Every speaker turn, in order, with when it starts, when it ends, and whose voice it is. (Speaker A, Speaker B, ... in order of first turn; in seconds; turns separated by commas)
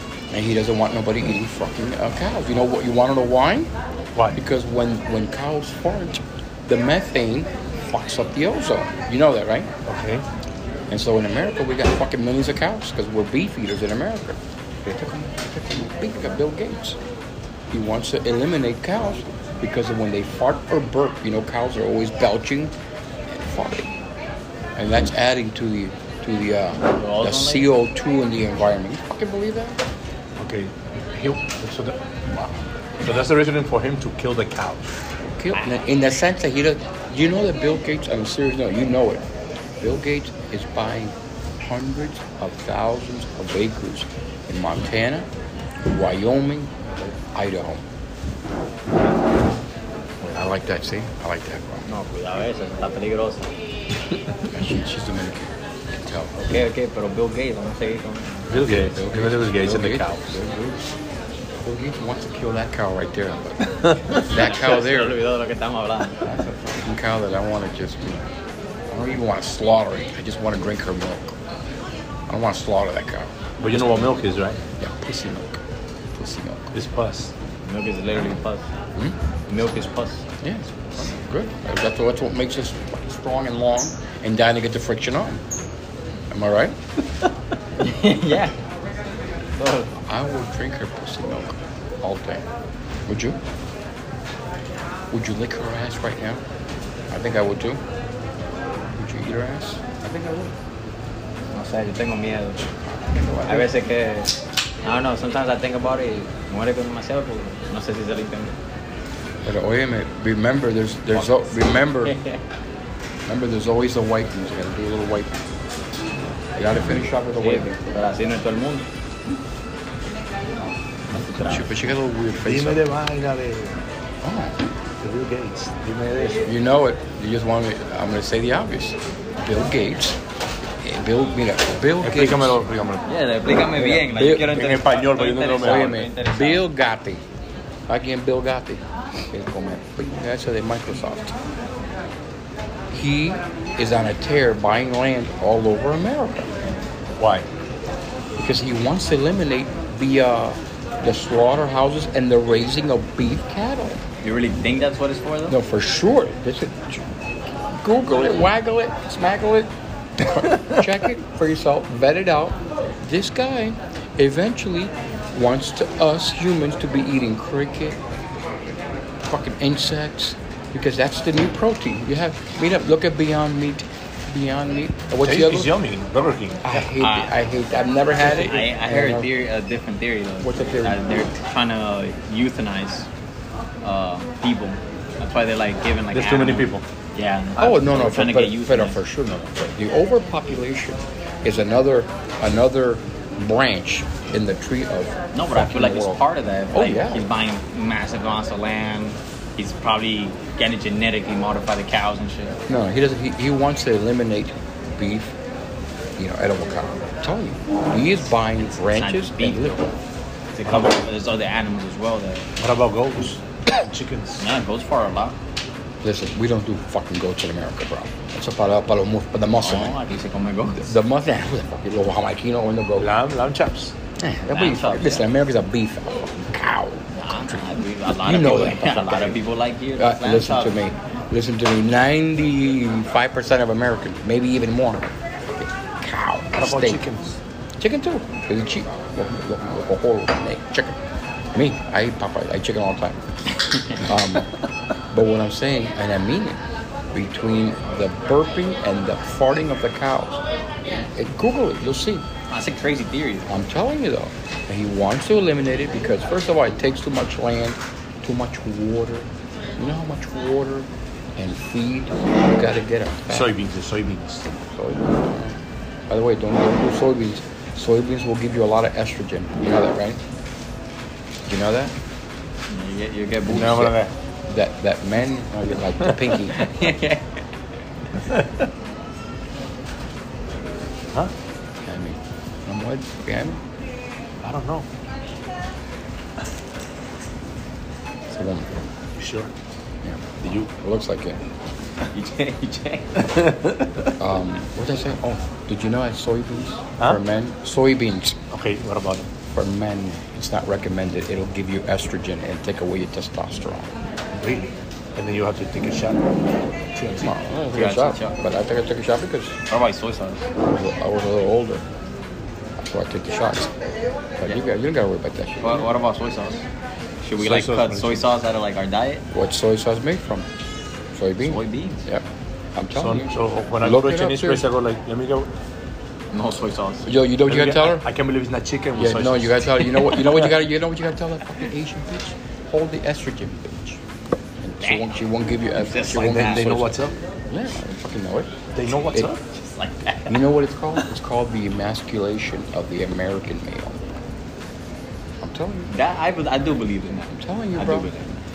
Speaker A: 0.3-3.7, Speaker A: 4.3-9.7, Speaker B: 9.8-10.2, Speaker A: 10.9-17.0, Speaker A: 17.7-22.7, Speaker A: 23.3-23.9, Speaker A: 24.8-29.8, Speaker C: 26.9-27.7, Speaker B: 30.4-32.0, Speaker A: 32.3-32.6, Speaker B: 33.0-35.0, Speaker A: 35.2-39.3, Speaker A: 39.8-45.3, Speaker A: 45.8-46.8, Speaker A: 47.3-47.9, Speaker A: 50.2-51.9, Speaker C: 51.9-53.5, Speaker A: 54.5-56.4, Speaker C: 56.4-58.5, Speaker B: 58.5-60.4, Speaker A: 58.6-60.9, Speaker A: 61.6-65.2, Speaker B: 63.7-64.2, Speaker C: 64.3-66.2, Speaker A: 66.2-68.3, Speaker A: 68.9-71.4, Speaker A: 72.3-74.1, Speaker B: 73.6-74.6, Speaker A: 74.8-75.6, Speaker A: 76.1-76.7, Speaker B: 76.7-77.3, Speaker C: 77.6-78.7, Speaker C: 79.5-80.2, Speaker A: 80.4-85.4, Speaker A: 86.3-86.8, Speaker C: 87.8-88.5, Speaker C: 89.6-89.9, Speaker A: 90.0-92.5, Speaker A: 93.1-93.4, Speaker A: 95.1-96.4, Speaker A: 97.1-97.8, Speaker A: 98.8-100.5, Speaker C: 101.5-102.7, Speaker A: 102.8-103.7, Speaker C: 103.4-108.5, Speaker A: 109.4-112.2, Speaker C: 112.0-112.4, Speaker A: 113.3-115.5, Speaker A: 116.5-117.8, Speaker C: 117.4-118.9, Speaker C: 121.1-121.8, Speaker A: 121.4-122.9, Speaker B: 122.4-123.8, Speaker A: 124.2-124.6, Speaker B: 125.0-126.5, Speaker A: 126.4-130.2, Speaker A: 130.8-132.7, Speaker B: 132.0-133.0, Speaker C: 133.1-136.6, Speaker A: 133.7-134.6, Speaker B: 134.4-136.0, Speaker A: 135.6-137.2, Speaker A: 137.9-141.3, Speaker A: 142.9-146.6, Speaker B: 147.2-147.5, Speaker A: 148.3-154.0, Speaker C: 154.2-155.6, Speaker A: 155.5-168.0, Speaker A: 169.2-175.7, Speaker B: 175.2-176.8, Speaker A: 176.6-179.3, Speaker C: 177.0-177.4, Speaker C: 178.2-183.1, Speaker A: 180.4-181.2, Speaker C: 183.8-189.0, Speaker B: 186.1-186.8, Speaker A: 187.6-197.2, Speaker C: 195.3-202.6, Speaker A: 202.7-205.3, Speaker A: 206.2-209.9, Speaker C: 208.6-209.8, Speaker C: 210.5-212.5, Speaker B: 212.6-214.5, Speaker C: 214.4-215.4, Speaker A: 216.0-220.0, Speaker C: 219.6-220.9, Speaker A: 220.7-223.1, Speaker B: 223.0-223.9, Speaker A: 224.2-229.4, Speaker C: 224.4-225.3, Speaker C: 227.1-230.7, Speaker A: 229.9-237.0, Speaker B: 236.6-237.4, Speaker A: 237.8-241.0, Speaker A: 241.5-243.2, Speaker C: 243.6-244.1, Speaker A: 244.0-244.5, Speaker A: 245.1-246.6, Speaker A: 247.1-250.4, Speaker A: 251.0-252.2, Speaker C: 252.5-253.5, Speaker A: 253.5-263.5, Speaker B: 263.3-264.6, Speaker A: 264.6-270.2, Speaker A: 271.4-271.9, Speaker C: 272.7-273.9, Speaker A: 273.5-276.6, Speaker B: 273.7-274.1, Speaker C: 276.5-277.4, Speaker B: 278.3-278.7, Speaker A: 281.8-283.6, Speaker B: 284.4-284.9, Speaker A: 288.3-288.7, Speaker B: 289.2-289.5, Speaker A: 290.0-291.4, Speaker B: 290.4-290.7, Speaker C: 292.1-293.5, Speaker B: 293.3-294.1, Speaker A: 294.2-298.4, Speaker B: 298.5-299.3, Speaker A: 299.5-303.9, Speaker B: 304.4-306.3, Speaker B: 306.9-307.3, Speaker A: 307.2-309.6, Speaker C: 307.7-308.4, Speaker C: 309.7-310.5, Speaker A: 310.6-311.9, Speaker A: 312.8-313.7, Speaker A: 314.4-315.9, Speaker C: 315.6-316.6, Speaker C: 317.2-319.2, Speaker B: 317.4-318.3, Speaker A: 319.3-320.5, Speaker A: 321.1-324.6, Speaker C: 321.4-322.1, Speaker B: 322.9-325.5, Speaker C: 326.3-327.1, Speaker A: 327.0-328.0, Speaker B: 327.4-330.5, Speaker A: 329.0-334.0, Speaker A: 334.6-336.9, Speaker C: 334.8-335.2, Speaker C: 335.8-336.6, Speaker B: 336.1-337.2, Speaker A: 337.5-338.6, Speaker B: 338.7-339.4, Speaker C: 339.5-340.5, Speaker A: 340.3-344.1, Speaker A: 345.4-345.9, Speaker C: 345.9-348.3, Speaker A: 347.3-348.1